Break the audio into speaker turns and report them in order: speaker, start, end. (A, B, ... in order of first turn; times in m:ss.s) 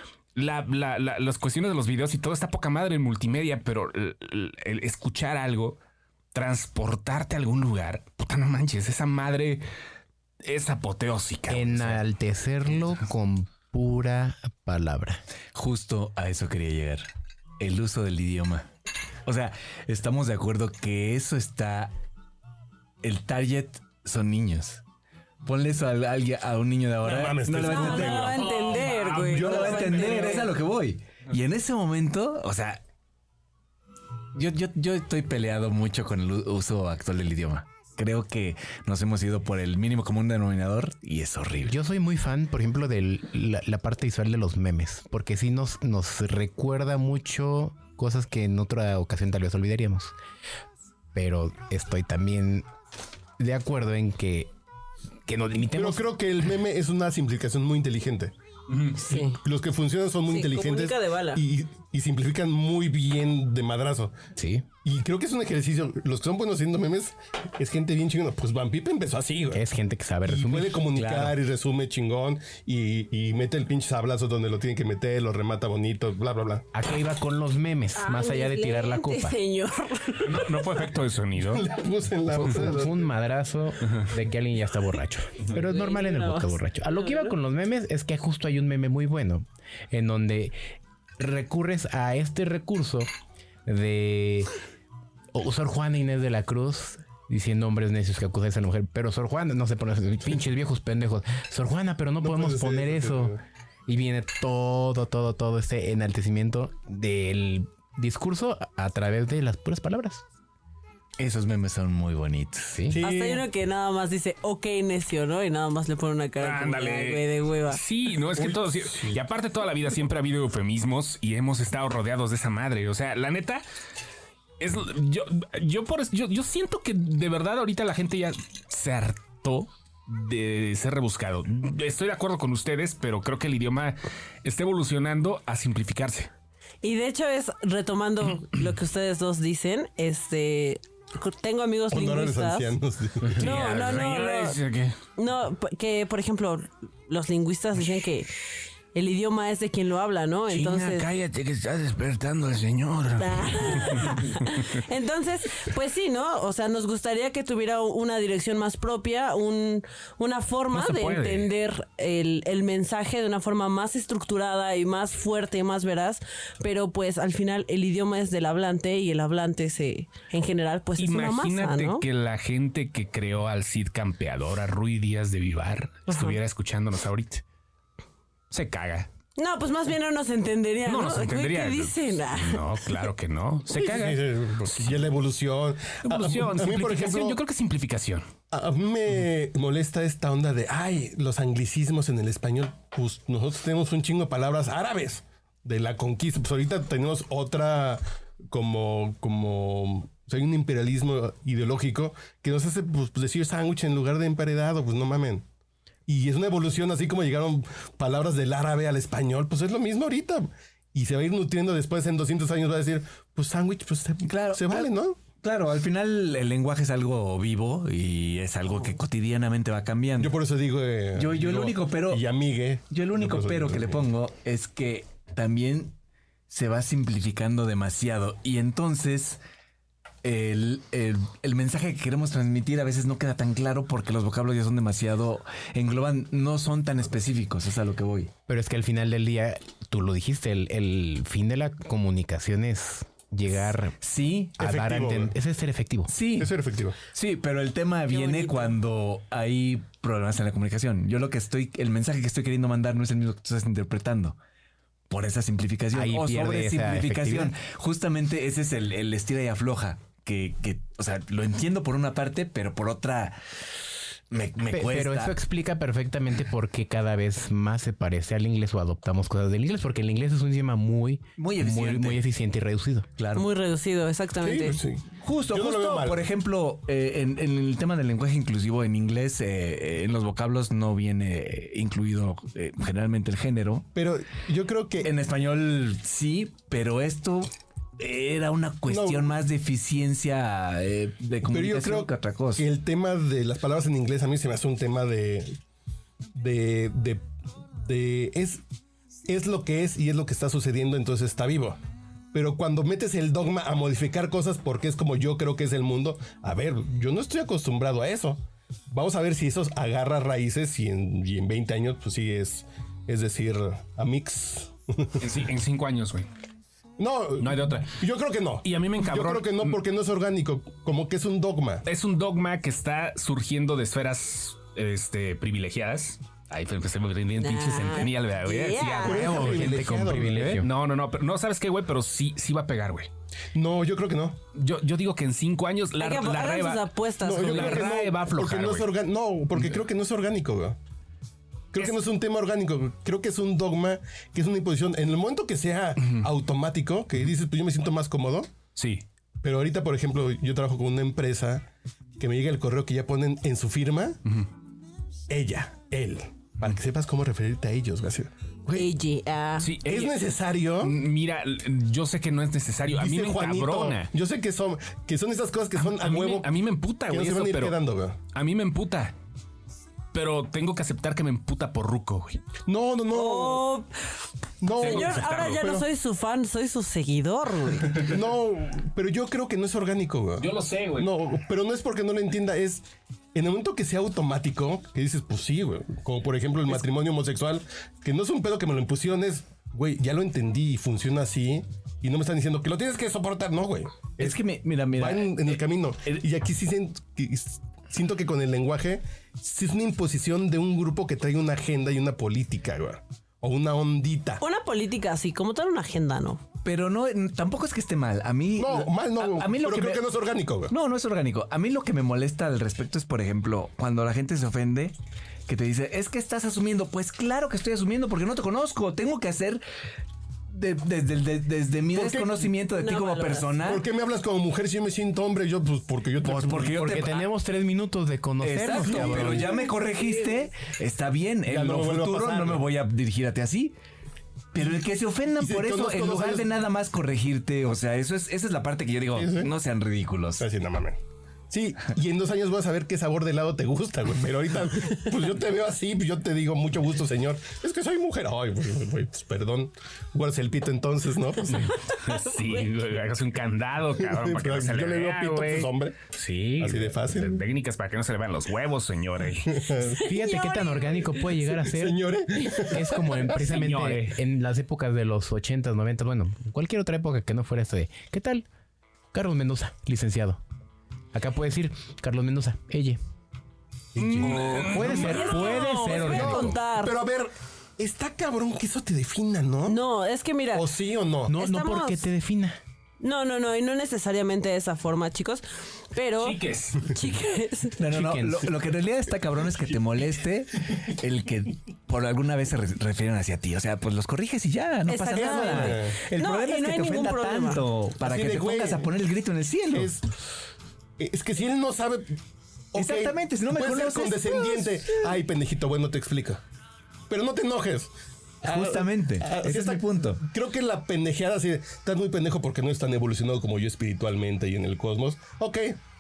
0:00.4-0:05.8 A
0:06.3-0:09.6 A
0:10.4-0:12.0 A
0:11.5-0:15.2 B
0:15.5-0:17.1 C
0:17.6-0:18.7 C
0:19.3-0:21.9 C
0:23.0-0:24.8 C
0:25.4-0:28.5 C
0:27.0-0:28.5 D
0:27.6-0:30.6 E
0:28.0-0:30.5 A
0:29.2-0:32.8 C
0:34.3-0:41.8 C
0:41.7-0:50.2 B
0:51.1-0:52.7 B
0:53.4-0:54.5 B
0:55.3-0:56.1 B
0:55.7-0:58.3 D
0:58.7-0:59.0 A
0:59.0-0:59.4 E
0:59.1-1:04.2 D
1:00.3-1:01.4 E
1:04.4-1:04.7 B
1:04.8-1:09.6 D
1:09.5-1:10.9 B
1:10.2-1:16.7 D
1:10.9-1:11.3 C
1:16.7-1:19.4 B
1:18.0-1:20.6 E
1:20.2-1:21.7 A
1:21.4-1:23.1 D
1:22.3-1:30.6 B
1:25.6-1:27.3 E
1:31.2-1:33.1 B
1:33.7-1:34.5 B
1:35.3-1:43.4 B
1:42.2-1:43.4 D
1:43.9-1:50.2 B
1:51.2-1:52.8 C
1:52.7-1:53.0 B
1:52.9-1:53.5 D
1:53.0-1:57.8 E
1:56.4-2:03.6 A
1:58.4-1:59.2 D
2:04.6-2:16.3 A
2:16.8-2:22.8 E
2:21.9-2:23.5 D
2:23.2-2:25.0 A
2:23.4-2:24.6 E
2:25.2-2:28.3 E
2:28.9-2:31.1 E
2:30.5-2:34.7 A
2:33.2-2:52.0 E
2:40.7-2:41.5 A
2:51.0-2:57.4 A
2:56.1-2:56.4 E
2:58.5-2:59.1 A
2:59.4-3:02.9 E
3:00.8-3:05.1 A
3:03.7-3:07.4 D
3:06.0-3:08.3 A
3:08.5-3:25.4 D
3:26.1-3:35.2 D
3:34.3-3:34.9 C
3:35.4-3:40.4 C
3:40.2-3:44.1 D
3:41.2-3:42.2 C
3:42.9-3:46.0 C
3:46.5-3:49.4 C
3:50.2-3:58.3 C
3:58.5-4:04.0 B
4:04.0-4:04.6 C
4:04.6-4:06.1 B
4:04.6-4:05.3 D
4:06.1-4:06.5 C
4:06.4-4:07.0 D
4:07.1-4:14.4 C
4:08.1-4:08.7 E
4:15.1-4:23.4 C
4:15.9-4:17.6 B
4:24.3-4:25.4 C
4:24.7-4:33.1 B
4:31.4-4:32.2 C
4:33.2-4:33.5 C
4:33.4-4:34.8 E
4:34.4-4:36.2 D
4:35.2-4:43.9 C
4:44.0-4:45.1 D
4:45.0-4:52.6 C
4:48.9-4:49.3 D
4:51.4-4:55.6 D
4:56.4-4:57.2 D
4:57.8-4:58.6 D
4:59.3-5:01.8 D
5:02.3-5:15.2 D
5:15.2-5:16.3 A
5:17.0-5:21.8 D
5:17.4-5:18.0 A
5:18.6-5:19.8 A
5:21.8-5:33.1 A
5:27.4-5:29.6 E
5:29.0-5:30.6 D
5:29.3-5:30.7 B
5:33.6-5:34.4 D
5:34.5-5:38.9 A
5:36.0-5:37.9 E
5:37.2-5:40.8 D
5:41.7-5:48.5 D
5:48.8-5:49.0 A
5:49.4-5:51.7 D
5:52.2-5:54.2 D
5:55.3-5:58.9 D
5:58.7-5:59.7 E
5:59.6-6:00.2 A
5:59.8-6:01.0 D
6:00.8-6:04.1 A
6:02.9-6:06.5 D
6:05.8-6:07.8 A
6:07.1-6:08.2 D
6:08.3-6:09.2 A
6:10.1-6:12.4 A
6:12.7-6:13.7 D
6:13.1-6:13.9 E
6:14.6-6:15.9 D
6:14.8-6:15.7 A
6:14.8-6:18.1 E
6:18.0-6:44.4 D
6:20.4-6:21.1 A
6:34.2-6:36.2 C
6:44.4-6:46.4 E
6:46.6-6:50.1 C
6:48.6-6:50.7 D
6:50.7-6:55.0 C
6:55.5-6:59.6 C
7:00.5-7:03.8 C
7:01.9-7:02.5 D
7:02.8-7:03.6 E
7:03.6-7:07.1 D
7:06.2-7:07.2 C
7:06.8-7:09.5 B
7:08.4-7:13.8 C
7:08.7-7:09.6 D
7:11.4-7:12.7 D
7:14.5-7:20.4 C
7:15.4-7:16.5 D
7:19.1-7:19.5 D
7:20.4-7:21.0 D
7:21.5-7:31.8 D
7:31.9-7:39.6 A
7:34.0-7:36.0 D
7:36.6-7:37.4 D
7:39.5-7:40.0 D
7:40.0-7:41.2 E
7:40.0-7:42.0 B
7:41.5-7:43.4 D
7:42.6-7:48.5 B
7:43.4-7:44.2 A
7:49.1-7:50.4 B
7:51.1-7:53.0 B
7:54.0-7:55.1 D
7:54.0-7:56.0 A
7:54.2-7:56.6 B
7:54.8-7:57.0 E
7:56.0-7:59.8 D
7:59.7-8:00.7 E
8:00.5-8:01.4 D
8:01.3-8:02.6 B
8:01.4-8:02.0 E
8:03.0-8:07.8 E
8:06.2-8:06.9 A
8:07.8-8:19.9 C
8:07.9-8:08.5 B
8:14.9-8:17.6 E
8:15.1-8:16.0 D
8:18.0-8:18.9 D
8:19.7-8:20.0 D
8:21.0-8:22.2 D
8:22.7-8:26.4 D
8:22.8-8:24.7 C
8:27.1-8:35.8 D
8:28.4-8:30.2 C